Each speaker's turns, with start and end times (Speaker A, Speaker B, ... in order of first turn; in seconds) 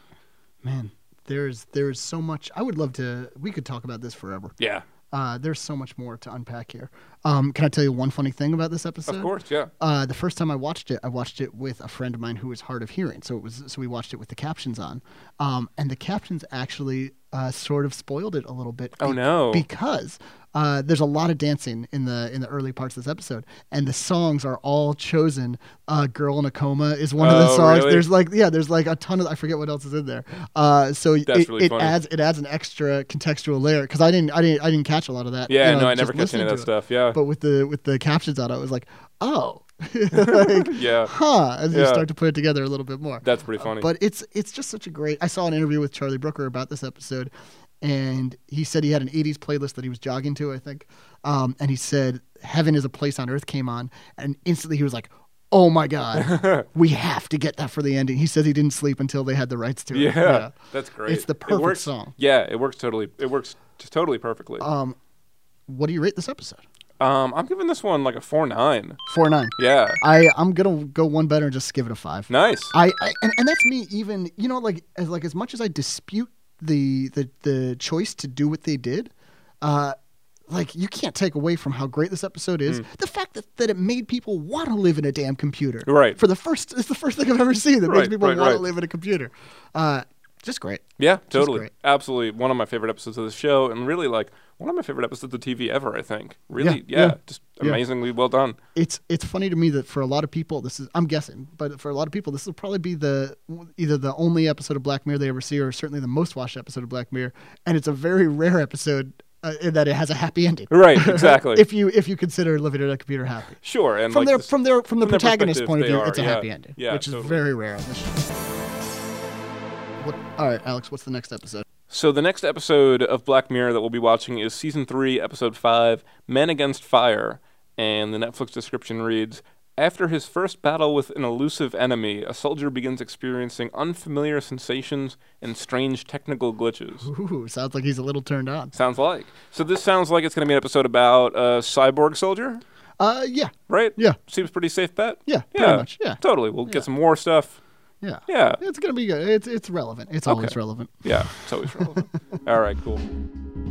Speaker A: 0.6-4.5, 5.1-60.5, 61.0-62.1, 64.6-65.0, 65.7-66.6, 69.1-80.0, 80.5-91.7, 96.6-97.8, 98.7-118.5, 120.0-121.6, 137.0-138.7, 143.0-144.2, 145.3-146.9, 148.0-152.0
Speaker B: 4.6-4.8, 9.1-9.7, 19.0-19.6, 27.2-28.1, 31.3-31.9, 35.5-37.2, 40.1-41.1, 41.7-42.0, 43.2-43.9, 56.1-56.6, 59.9-64.7, 67.0-69.0, 69.6-70.0, 72.3-72.7, 85.8-86.2, 87.8-88.7, 91.0-98.6, 110.7-111.6, 113.6-114.5, 115.0-117.4, 121.9-137.1, 138.7-142.6, 143.7-147.6, 148.3-148.6, 150.2-153.0